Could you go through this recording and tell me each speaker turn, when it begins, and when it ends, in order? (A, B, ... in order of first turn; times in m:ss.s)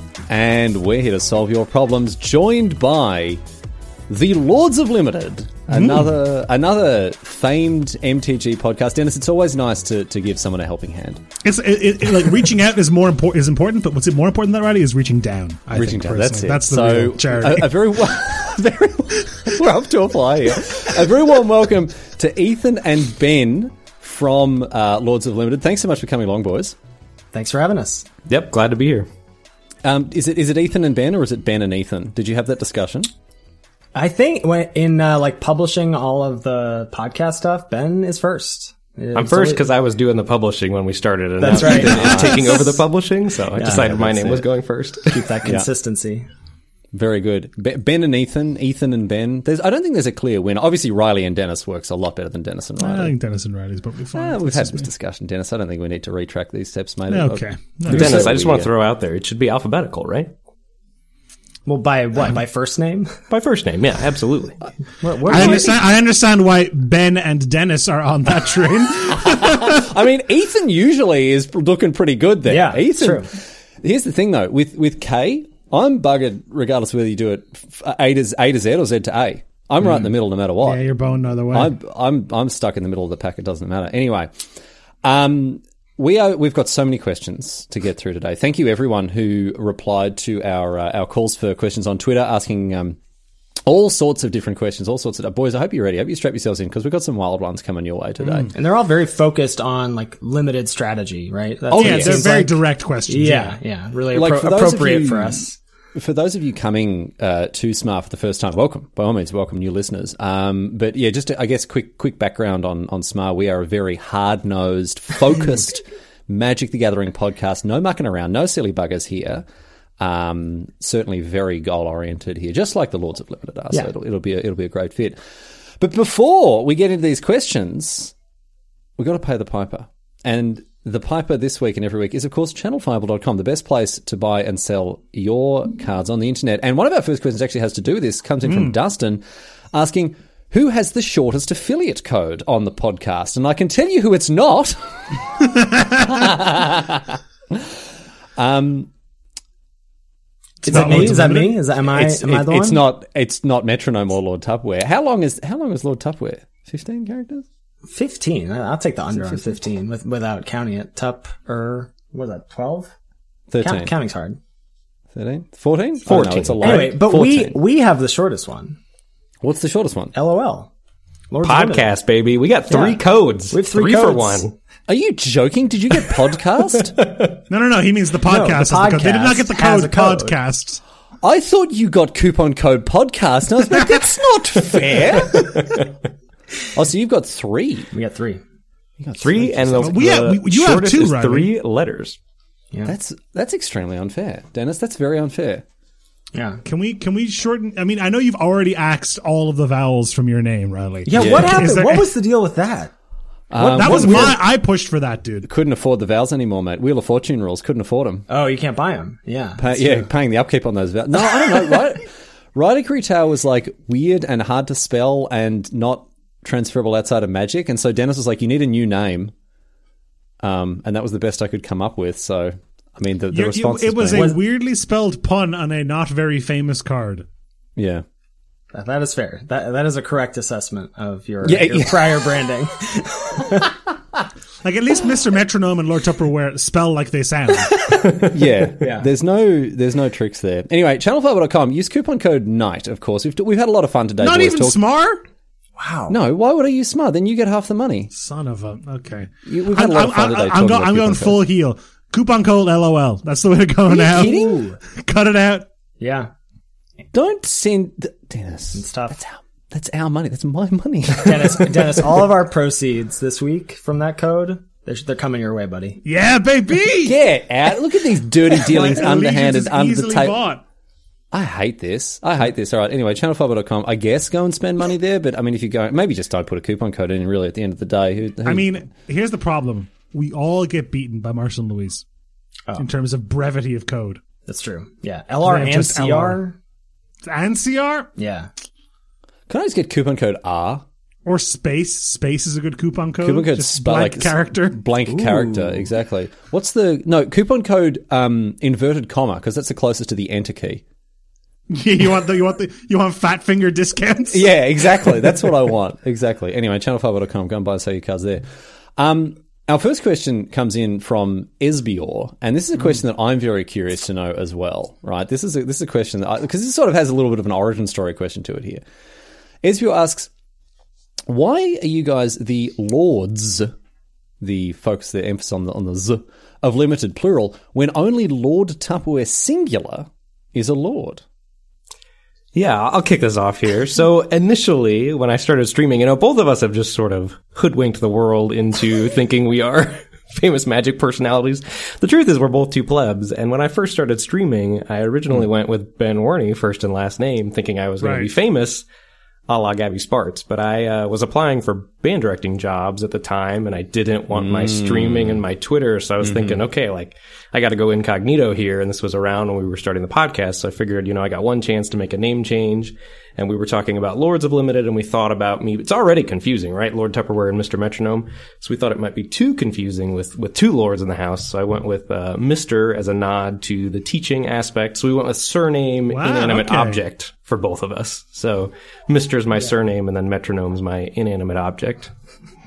0:00.3-0:03.4 A
0:04.1-0:11.2 A
0:05.7-0:06.1 B
0:11.4-0:17.8 B
0:15.7-0:26.7 A
0:27.3-0:28.0 C
0:28.3-0:29.1 D
0:29.8-0:33.1 A
0:33.9-0:39.7 C
0:39.1-0:45.2 D
0:41.4-0:42.6 C
0:41.5-0:42.6 A
0:43.6-0:44.4 C
0:43.7-0:44.3 A
0:45.1-0:46.2 C
0:46.9-0:53.1 A
0:52.8-0:54.9 B
0:54.1-0:58.7 A
0:57.1-0:58.4 B
0:57.9-1:00.3 D
1:01.6-1:03.1 C
1:03.3-1:04.6 D
1:05.0-1:05.8 C
1:05.2-1:09.8 B
1:05.3-1:05.6 A
1:09.3-1:20.8 A
1:12.4-1:13.3 C
1:20.6-1:21.7 B
1:21.5-1:24.3 A
1:25.0-1:33.0 A
1:33.6-1:38.5 A
1:38.2-1:38.5 B
1:38.5-1:45.6 C
1:41.7-1:42.1 D
1:41.8-1:43.5 B
1:44.1-1:59.4 A
2:00.0-2:05.2 A
2:05.8-2:08.1 A
2:09.0-2:25.2 A
2:18.4-2:18.8 B
2:25.9-2:27.8 A
2:28.4-2:28.9 A
2:30.6-2:31.5 B
2:30.6-2:32.8 C
2:30.7-2:37.4 A
2:37.9-2:42.9 C
2:43.5-2:43.9 A
2:43.6-2:44.4 C
2:45.1-2:47.5 A
2:46.1-2:46.9 D
2:46.6-2:48.8 C
2:49.4-2:50.1 A
2:50.1-2:50.7 C
2:51.3-2:51.9 C
2:51.4-2:54.5 D
2:52.7-2:54.4 C
2:54.9-2:57.0 A
2:56.9-2:57.3 D
2:57.5-3:00.8 B
2:58.2-3:00.4 C
3:01.2-3:05.6 A
3:06.7-3:07.9 A
3:07.9-3:08.4 C
3:09.0-3:10.0 A
3:09.2-3:12.2 D
3:09.8-3:11.5 B
3:12.8-3:15.6 A
3:16.3-3:16.6 C
3:16.6-3:22.1 B
3:21.0-3:22.9 C
3:21.1-3:21.6 A
3:23.5-3:24.4 A
3:23.6-3:25.5 B
3:23.8-3:24.4 C
3:25.4-3:28.3 A
3:28.3-3:30.1 C
3:29.6-3:39.3 A
3:40.4-3:44.4 A
3:43.3-3:47.2 B
3:44.1-3:44.4 C
3:47.8-3:48.0 A
3:48.7-3:53.7 C
3:51.4-3:52.3 A
3:54.6-3:57.9 B
3:58.2-4:04.8 A
3:58.7-3:59.1 C
4:04.2-4:05.2 B
4:05.8-4:06.1 C
4:06.1-4:08.1 A
4:08.1-4:15.6 B
4:09.4-4:11.4 A
4:13.9-4:14.8 C
4:16.0-4:16.3 C
4:17.1-4:22.0 A
4:18.7-4:19.2 C
4:21.2-4:26.0 C
4:26.0-4:27.2 B
4:27.0-4:30.4 A
4:28.5-4:30.6 B
4:31.3-4:38.7 A
4:38.4-4:42.0 B
4:42.8-4:44.2 B
4:44.4-4:46.6 C
4:45.4-4:46.4 B
4:47.2-4:48.1 B
4:48.2-4:48.5 C
4:49.5-4:50.8 A
4:51.2-4:54.8 B
4:53.2-5:00.8 A
4:55.1-4:55.8 C
5:01.7-5:04.5 B
5:04.3-5:08.4 A
5:05.0-5:05.4 B
5:09.0-5:18.8 A
5:19.6-5:20.3 A
5:21.3-5:23.7 A
5:24.4-5:31.2 A
5:32.5-5:48.8 D
5:48.0-5:48.3 B
5:49.5-6:22.1 D
5:54.3-5:55.4 A
5:56.2-5:56.6 A
6:16.1-6:17.0 B